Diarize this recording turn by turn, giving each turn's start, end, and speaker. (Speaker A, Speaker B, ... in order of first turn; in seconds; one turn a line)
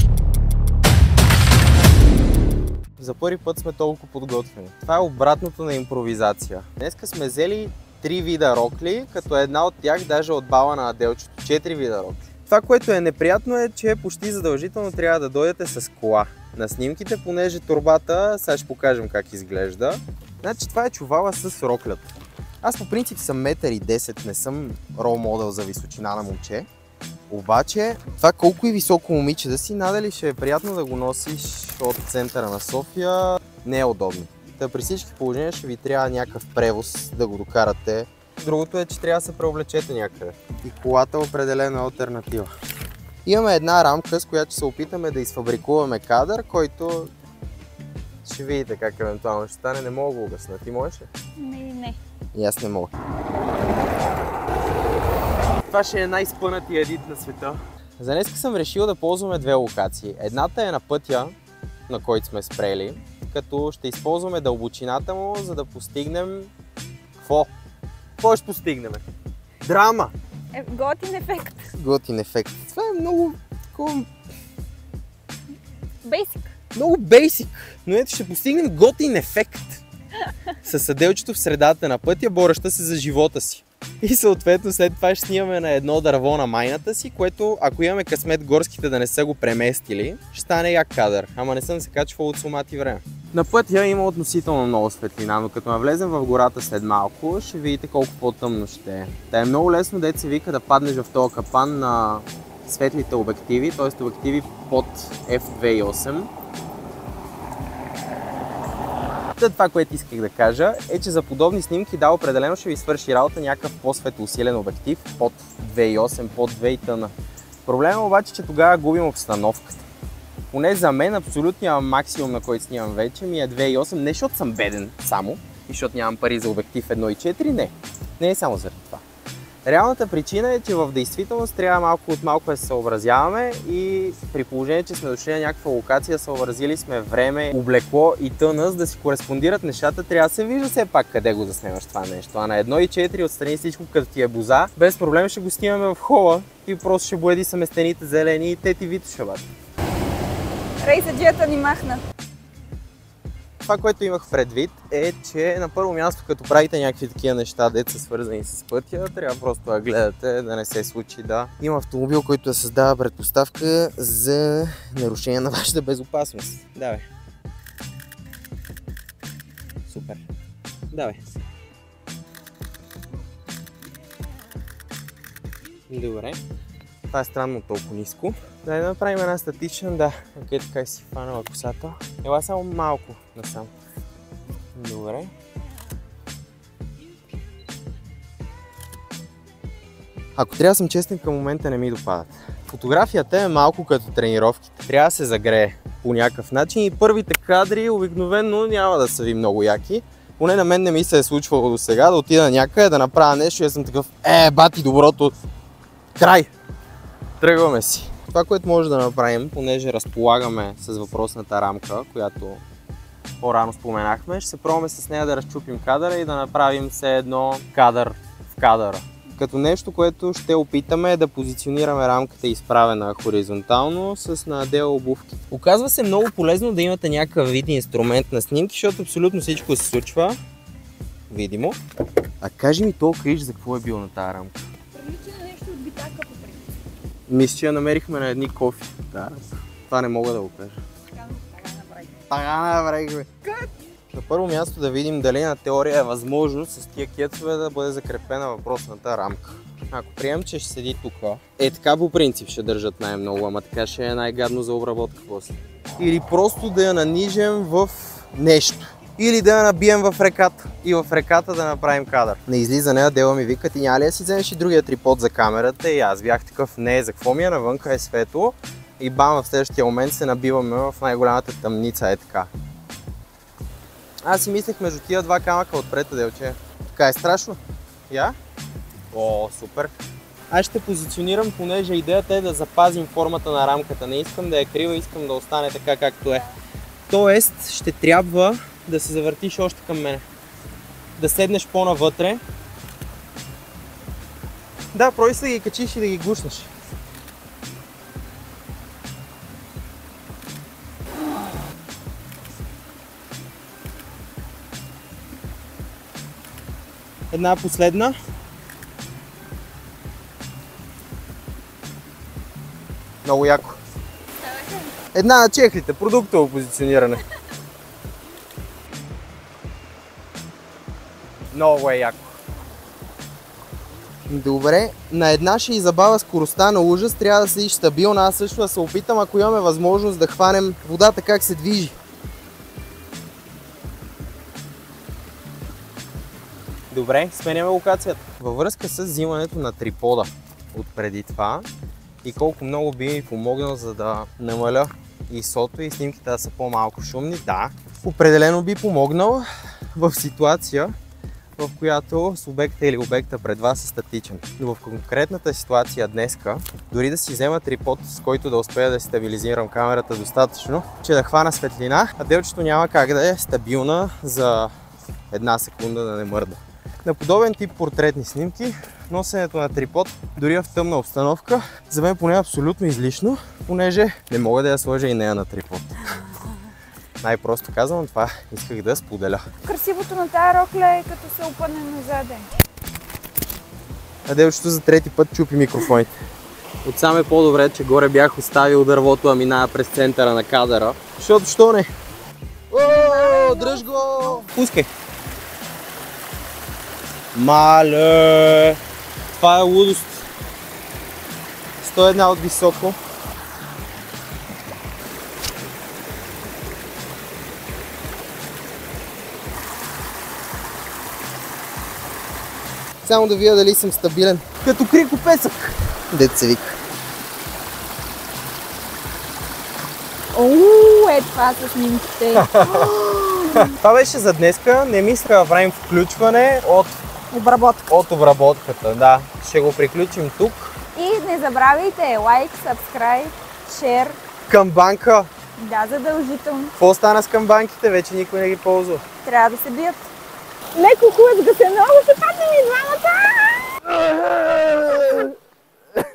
Speaker A: 3.0-26.7
Speaker A: 27.3-42.5
Speaker A: 43.2-47.1
Speaker A: 48.2-51.1
Speaker B: 51.4-52.0
Speaker A: 52.3-52.9
Speaker A: 55.7-61.3
Speaker A: 61.9-66.5
Speaker A: 67.2-67.5
Speaker A: 68.2-69.0
Speaker A: 69.6-70.1
Speaker B: 70.5-71.7
Speaker A: 71.7-74.1
Speaker B: 76.0-76.5
Speaker A: 76.7-79.8
Speaker A: 80.6-106.3
Speaker A: 109.4-117.1
Speaker A: 117.6-119.8
Speaker A: 120.5-129.0
Speaker A: 129.6-149.4
Speaker B: 150.8-152.0
Speaker A: 153.6-167.1
Speaker A: 169.9-170.2
Speaker A: 170.9-171.2
Speaker A: 175.9-176.4
Speaker A: 177.1-183.7
Speaker A: 184.7-185.3
Speaker A: 190.3-205.3
Speaker A: 206.2-206.5
Speaker A: 207.4-212.6
Speaker A: 213.4-230.4
Speaker A: 231.3-231.8
Speaker A: 232.4-234.6
Speaker B: 234.9-236.7
Speaker A: 237.3-240.8
Speaker B: 241.1-242.1
Speaker A: 242.3-272.5
Speaker A: 274.2-278.4
Speaker A: 279.1-279.9
Speaker A: 280.5-286.5
Speaker A: 287.1-290.2
Speaker A: 291.2-292.4
Speaker A: 294.9-296.7
Speaker A: 307.3-308.1
Speaker A: 313.2-313.8
Speaker B: 314.5-314.9
Speaker A: 315.1-317.2
Speaker A: 321.5-322.3
Speaker A: 324.3-331.9
Speaker A: 336.9-341.7
Speaker A: 342.2-350.9
Speaker A: 351.6-364.7
Speaker A: 365.3-376.0
Speaker A: 377.2-379.4
Speaker B: 379.6-382.5
Speaker A: 384.2-386.1
Speaker A: 386.8-391.9
Speaker A: 392.7-394.9
Speaker B: 392.8-394.4
Speaker A: 397.3-398.8
Speaker A: 399.3-400.3
Speaker A: 401.8-403.0
Speaker A: 413.0-416.8
Speaker B: 420.3-423.7
Speaker A: 422.3-422.9
Speaker A: 423.6-427.0
Speaker B: 427.3-427.9
Speaker A: 427.9-430.7
Speaker B: 430.9-434.2
Speaker A: 434.5-435.3
Speaker B: 435.6-436.7
Speaker A: 436.8-439.0
Speaker B: 439.2-440.1
Speaker B: 440.7-444.0
Speaker B: 444.7-445.2